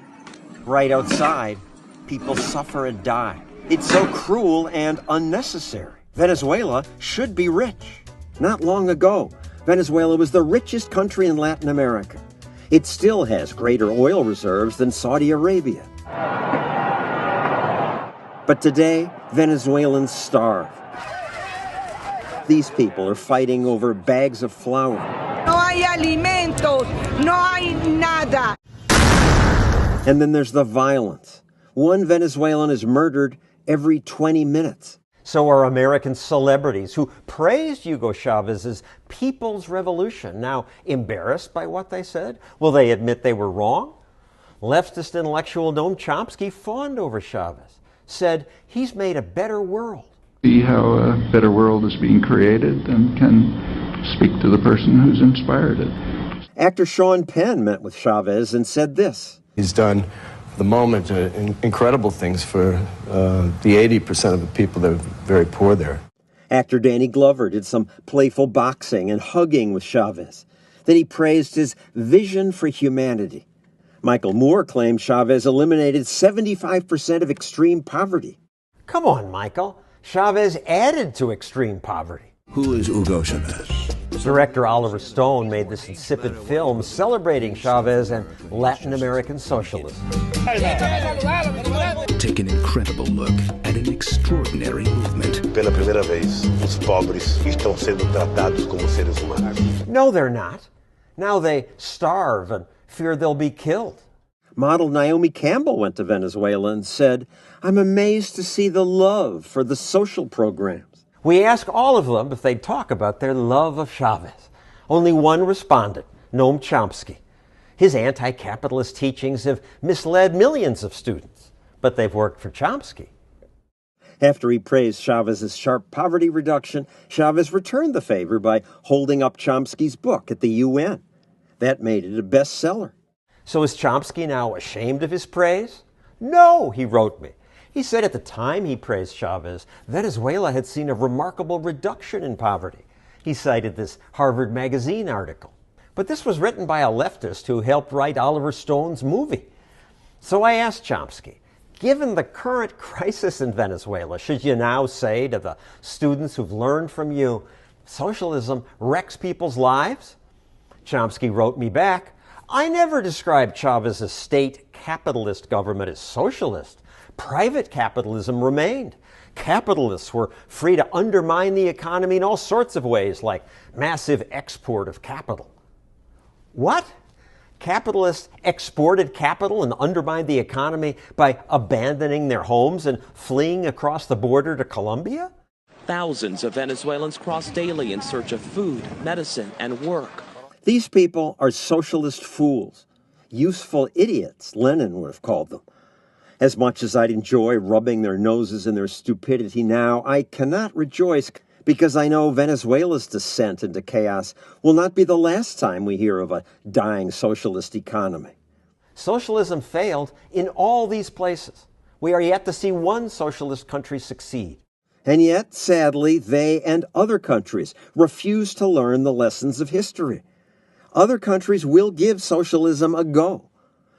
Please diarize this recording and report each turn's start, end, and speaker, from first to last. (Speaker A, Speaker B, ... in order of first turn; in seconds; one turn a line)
Speaker A: 0.6-15.9
Speaker A: 18.5-20.8
Speaker A: 22.5-25.1
Speaker B: 25.4-28.6
Speaker A: 30.0-43.9
Speaker A: 44.6-50.1
Speaker C: 50.4-55.9
Speaker A: 56.6-59.4
Speaker D: 59.6-66.0
Speaker A: 66.5-73.5
Speaker A: 74.0-82.3
Speaker E: 82.5-84.1
Speaker A: 84.2-90.0
Speaker E: 91.9-95.5
Speaker F: 95.5-99.6
Speaker A: 99.8-104.0
Speaker A: 104.6-117.2
Speaker A: 117.8-123.1
Speaker A: 124.2-131.0
Speaker A: 131.6-132.9
Speaker A: 133.5-149.5
Speaker A: 150.2-160.2
Speaker A: 160.8-175.5
Speaker A: 176.5-176.9
Speaker A: 177.6-185.3
Speaker G: 185.9-190.2
Speaker A: 190.6-195.6
Speaker A: 196.4-208.3
Speaker A: 208.9-220.2
Speaker A: 220.9-223.5